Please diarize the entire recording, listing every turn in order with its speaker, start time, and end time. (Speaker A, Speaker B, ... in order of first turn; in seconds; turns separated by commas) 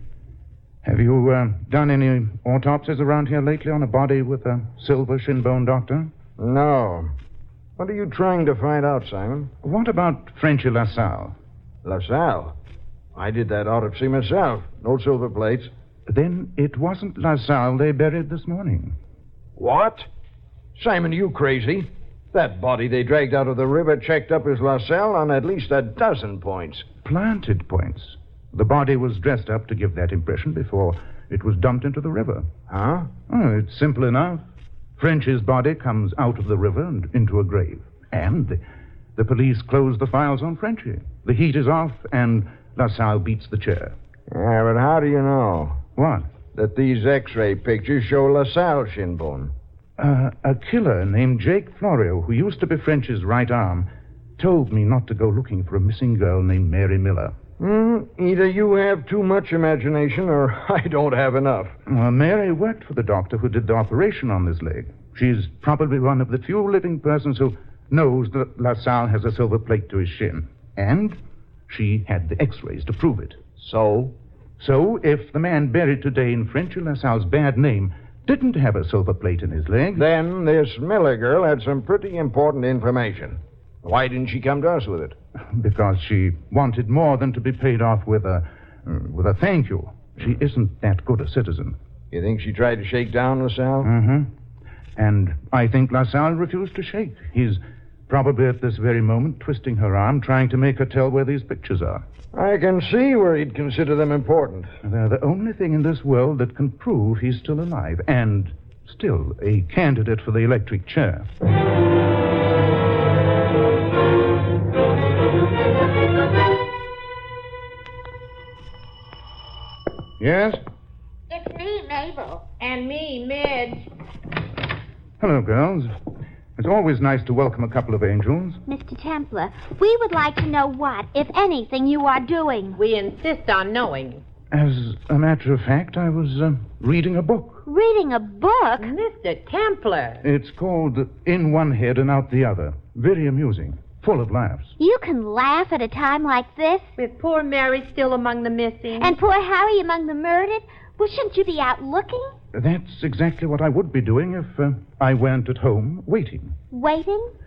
Speaker A: 0.8-6.1, Speaker B: 6.4-7.1, Speaker B: 7.8-9.5, Speaker A: 9.6-11.3, Speaker B: 11.8-12.5, Speaker B: 13.1-15.7, Speaker A: 16.1-18.9, Speaker B: 19.6-20.1, Speaker B: 20.8-26.9, Speaker A: 27.0-32.5, Speaker B: 32.7-33.1, Speaker A: 33.3-34.4, Speaker A: 35.0-38.6, Speaker A: 39.1-44.0, Speaker B: 44.3-45.8, Speaker A: 46.0-46.3, Speaker B: 46.5-49.5, Speaker A: 50.0-57.4, Speaker B: 57.6-61.7, Speaker A: 61.9-73.4, Speaker B: 73.6-74.1, Speaker A: 74.6-80.1, Speaker B: 80.0-85.2, Speaker A: 85.4-91.8, Speaker B: 92.1-93.9, Speaker A: 93.8-94.3, Speaker A: 95.0-102.0, Speaker B: 102.3-104.7, Speaker A: 104.8-111.3, Speaker A: 120.2-120.6, Speaker C: 121.3-122.4, Speaker D: 122.6-123.9, Speaker A: 125.2-126.0, Speaker A: 126.6-128.6, Speaker C: 128.7-132.8, Speaker D: 132.7-134.2, Speaker A: 134.5-137.6, Speaker C: 137.7-138.9, Speaker D: 138.8-140.2, Speaker A: 140.2-144.7, Speaker C: 144.8-146.9, Speaker D: 147.0-149.1, Speaker C: 149.0-152.3, Speaker A: 152.5-156.5, Speaker C: 156.7-157.3